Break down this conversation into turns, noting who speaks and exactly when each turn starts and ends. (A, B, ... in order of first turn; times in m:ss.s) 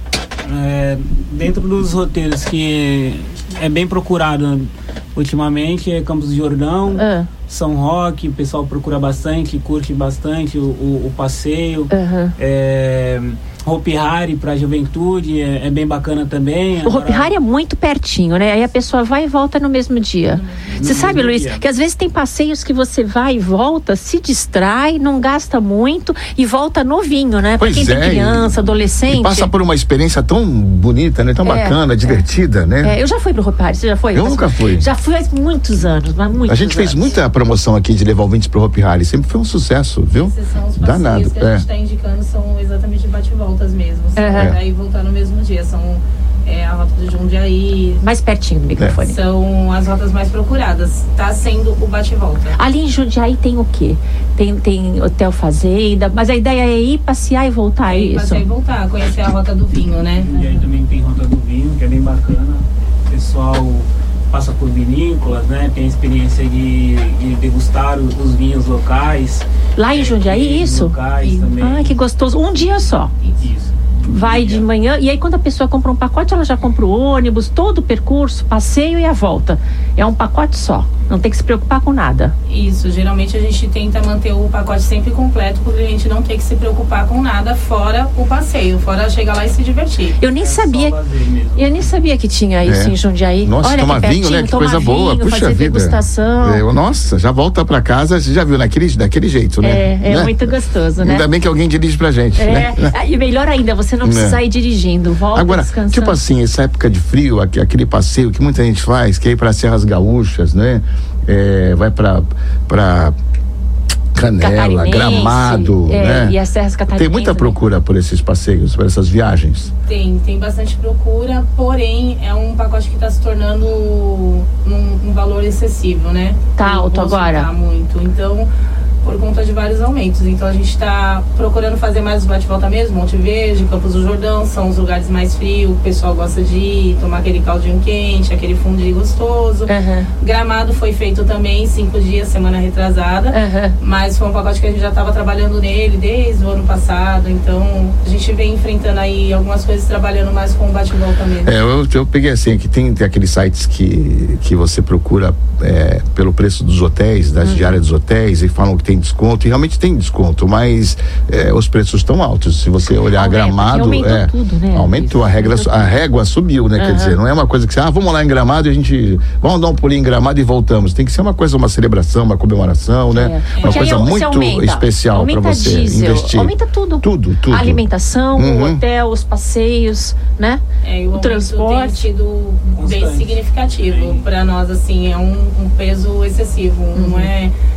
0:00.4-0:17.3 A
0:06.9-0:07.3 B
0:11.9-0:12.3 B
0:16.8-0:29.5 B
0:20.6-0:21.6 A
0:27.6-0:33.0 C
0:31.4-0:32.2 B
0:32.8-0:37.2 B
0:34.1-0:34.9 C
0:36.5-0:41.6 C
0:40.2-0:48.0 D
0:44.2-0:44.5 B
0:48.0-0:49.2 B
0:49.0-0:52.6 D
0:52.5-0:58.4 B
0:57.8-1:00.4 D
1:00.0-1:11.9 A
1:09.8-1:10.9 B
1:11.2-1:11.5 D
1:11.6-1:13.1 B
1:13.4-1:14.6 A
1:14.0-1:22.3 B
1:22.5-1:30.2 D
1:30.2-1:31.0 B
1:30.4-1:31.9 A
1:31.6-1:36.6 B
1:32.6-1:40.4 C
1:39.6-1:41.2 B
1:41.0-1:42.9 C
1:42.4-1:46.2 B
1:44.0-1:44.4 C
1:45.3-1:53.1 C
1:54.1-1:56.4 C
1:54.4-1:57.6 B
1:56.9-1:59.7 C
1:59.8-2:08.5 D
2:06.6-2:07.5 B
2:09.0-2:19.7 D
2:19.7-2:20.1 B
2:20.2-2:31.5 D
2:23.3-2:23.8 B
2:31.4-2:57.8 C
2:37.4-2:37.8 B
2:42.9-2:46.0 B
2:46.8-2:47.2 B
2:53.1-3:00.6 B
2:53.5-2:54.0 D
2:58.3-2:58.8 C
3:00.8-3:07.5 D
3:01.1-3:02.1 B
3:02.7-3:04.3 A
3:06.9-3:07.3 B